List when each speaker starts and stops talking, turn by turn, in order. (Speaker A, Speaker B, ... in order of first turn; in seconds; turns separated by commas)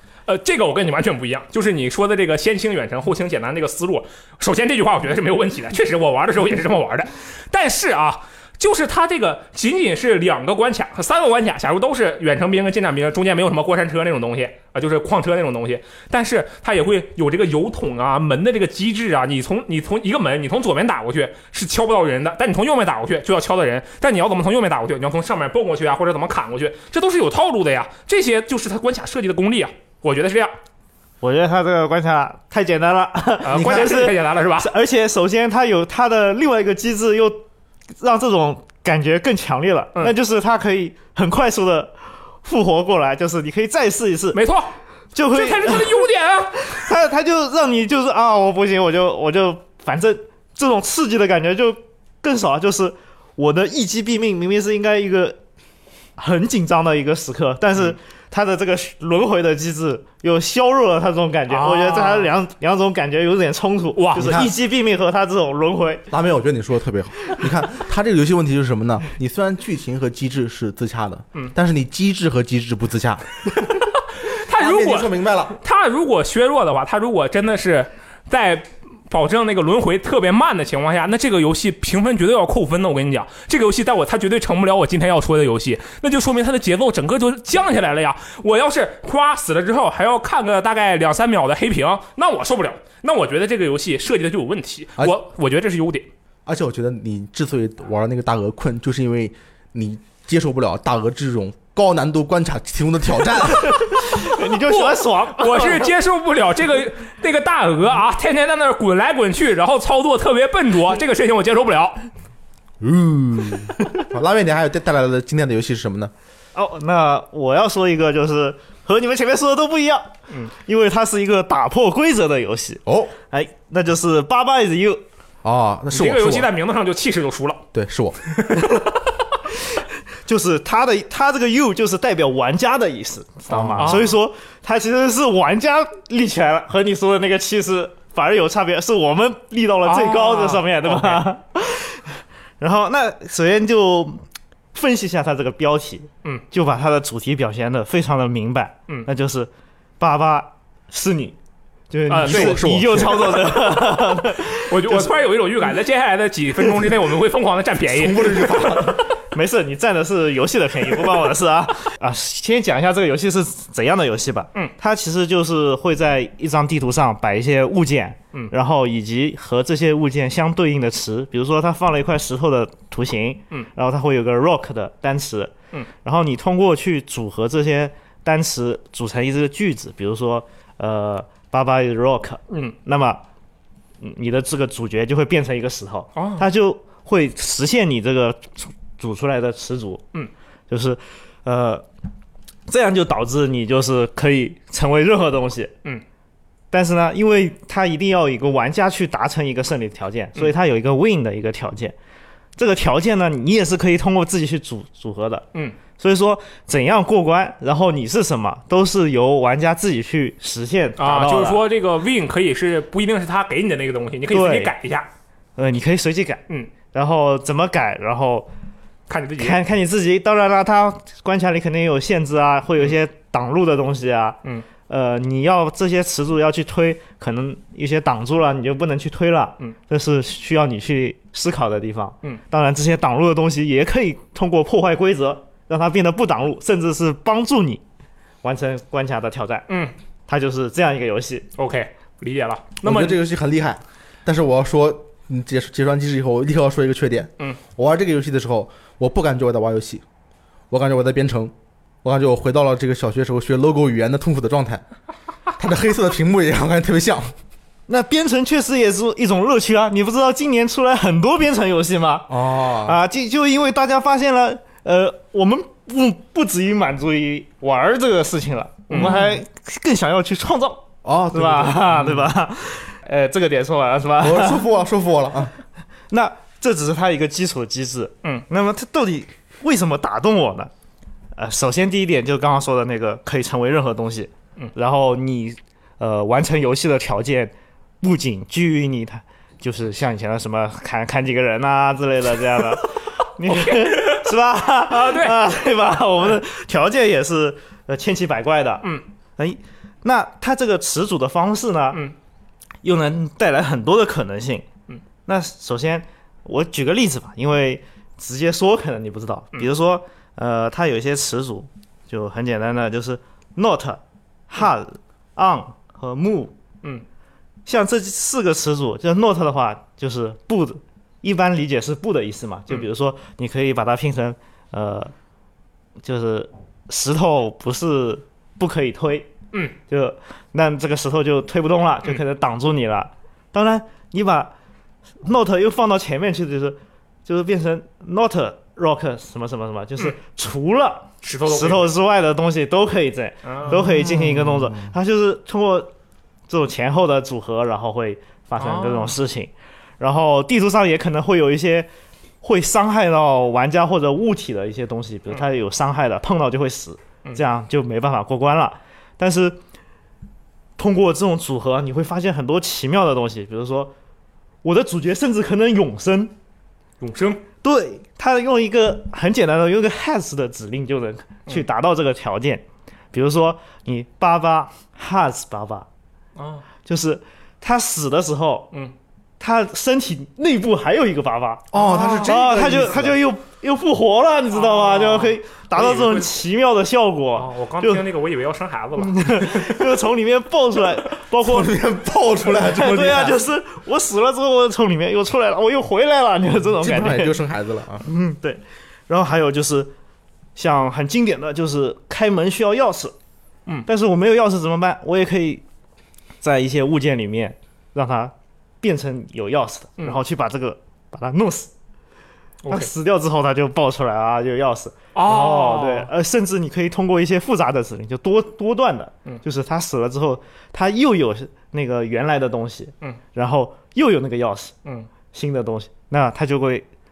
Speaker A: 0.3-30.5, Speaker B: 31.2-37.4, Speaker A: 33.4-34.7, Speaker C: 33.5-34.0, Speaker B: 38.0-44.4, Speaker A: 44.3-44.7, Speaker B: 45.1-55.4, Speaker A: 45.3-46.8, Speaker B: 56.2-66.1, Speaker A: 61.5-62.3, Speaker A: 63.9-64.5, Speaker C: 64.2-64.5, Speaker C: 66.1-73.5, Speaker A: 73.7-96.1, Speaker C: 74.5-75.5, Speaker C: 96.5-104.0, Speaker B: 103.7-105.9, Speaker A: 104.1-112.0, Speaker C: 112.8-116.1, Speaker B: 116.5-125.0, Speaker C: 122.8-123.1, Speaker C: 125.4-126.5, Speaker A: 125.9-127.6, Speaker C: 127.7-128.5, Speaker A: 128.3-128.8, Speaker B: 129.8-144.2, Speaker C: 133.5-134.0, Speaker A: 133.5-134.1, Speaker A: 139.8-141.2, Speaker B: 144.7-151.3, Speaker B: 151.9-155.1, Speaker A: 152.1-153.0, Speaker C: 152.2-153.7, Speaker A: 154.5-159.1, Speaker C: 157.9-159.0, Speaker B: 159.3-183.2, Speaker A: 182.5-182.7, Speaker B: 184.0-190.0, Speaker A: 186.2-186.5, Speaker B: 190.7-191.8, Speaker B: 192.7-195.7, Speaker B: 196.7-201.9, Speaker B: 202.6-211.6, Speaker A: 211.0-215.1, Speaker B: 214.3-214.7, Speaker B: 215.6-218.5, Speaker A: 219.1-219.6, Speaker B: 219.4-237.8, Speaker B: 238.4-239.7, Speaker A: 239.7-239.9, Speaker B: 240.3-241.5, Speaker A: 241.6-243.2, Speaker C: 242.8-250.0, Speaker C: 250.7-254.8, Speaker C: 255.6-257.3, Speaker B: 257.9-274.7, Speaker C: 262.3-263.0, Speaker A: 268.9-269.4, Speaker C: 271.0-272.3, Speaker C: 274.2-275.5, Speaker B: 276.1-280.7, Speaker B: 281.3-302.0, Speaker A: 293.4-294.3, Speaker A: 294.9-295.4, Speaker B: 302.8-304.6, Speaker B: 305.2-316.5, Speaker B: 317.6-325.1, Speaker B: 326.0-329.3, Speaker B: 329.9-334.5, Speaker B: 335.2-345.9, Speaker A: 341.2-341.9, Speaker A: 343.4-343.9, Speaker C: 343.7-344.9, Speaker B: 346.5-351.9, Speaker A: 348.6-349.2, Speaker B: 352.4-359.6, Speaker B: 360.8-363.9, Speaker B: 364.6-366.3, Speaker A: 367.0-367.4, Speaker B: 367.6-375.9, Speaker A: 376.4-376.6, Speaker B: 376.8-378.7, Speaker B: 379.4-388.0, Speaker C: 381.7-383.2, Speaker A: 381.7-382.3, Speaker A: 384.5-386.3, Speaker A: 387.4-389.8, Speaker B: 389.0-391.7, Speaker C: 391.4-393.4, Speaker B: 392.5-397.4, Speaker C: 396.8-398.1, Speaker B: 398.0-399.9, Speaker B: 400.6-403.1, Speaker B: 403.9-405.6, Speaker B: 406.4-411.7, Speaker A: 412.6-412.9, Speaker B: 412.7-424.7, Speaker A: 415.1-416.1, Speaker B: 425.3-426.9